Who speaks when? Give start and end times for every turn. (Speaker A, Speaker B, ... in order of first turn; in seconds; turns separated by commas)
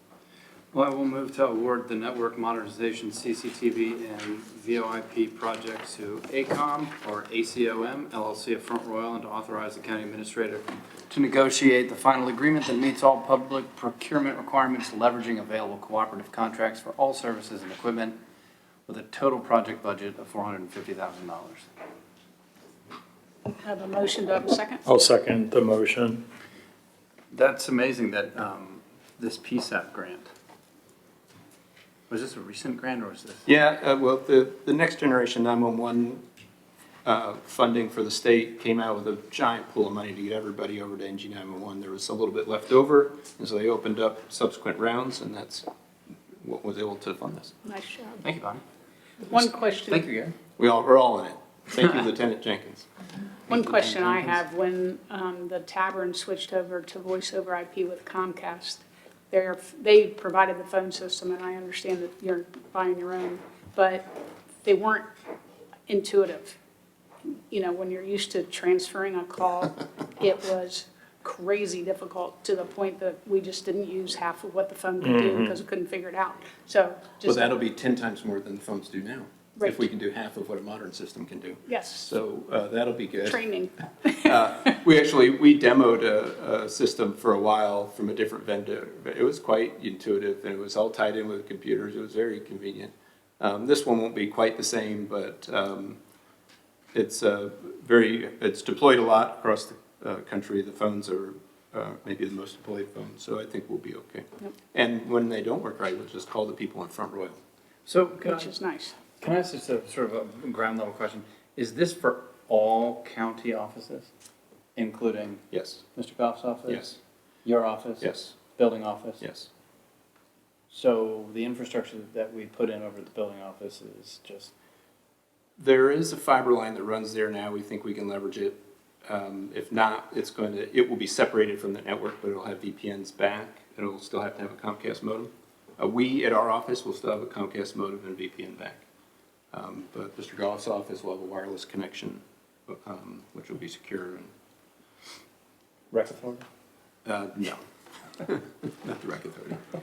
Speaker A: 0.7-18.2, Speaker A: 18.9-21.7, Speaker B: 23.6-24.8, Speaker C: 24.9-26.2, Speaker A: 27.3-30.3, Speaker A: 32.1-33.5, Speaker D: 33.5-36.2, Speaker D: 37.0-45.6, Speaker D: 46.4-47.5, Speaker B: 47.6-48.2, Speaker A: 48.2-48.6, Speaker B: 49.3-50.0, Speaker A: 49.3-50.4, Speaker D: 50.6-52.9, Speaker A: 53.5-54.4, Speaker B: 53.5-64.1, Speaker B: 64.6-65.1, Speaker B: 65.9-66.5, Speaker B: 67.5-77.6, Speaker C: 75.0-75.6, Speaker D: 77.2-83.4, Speaker B: 81.7-82.1, Speaker B: 83.2-84.3, Speaker D: 84.2-96.0, Speaker D: 96.9-107.4, Speaker A: 107.8-108.5, Speaker B: 108.2-108.9, Speaker A: 109.2-114.1, Speaker A: 114.8-119.2, Speaker D: 115.5-115.8, Speaker D: 116.7-116.9, Speaker D: 118.0-118.3, Speaker D: 119.2-119.5, Speaker A: 120.7-124.5, Speaker D: 125.6-138.8, Speaker D: 139.5-144.3, Speaker A: 145.9-146.4, Speaker D: 147.0-147.6, Speaker D: 148.2-149.6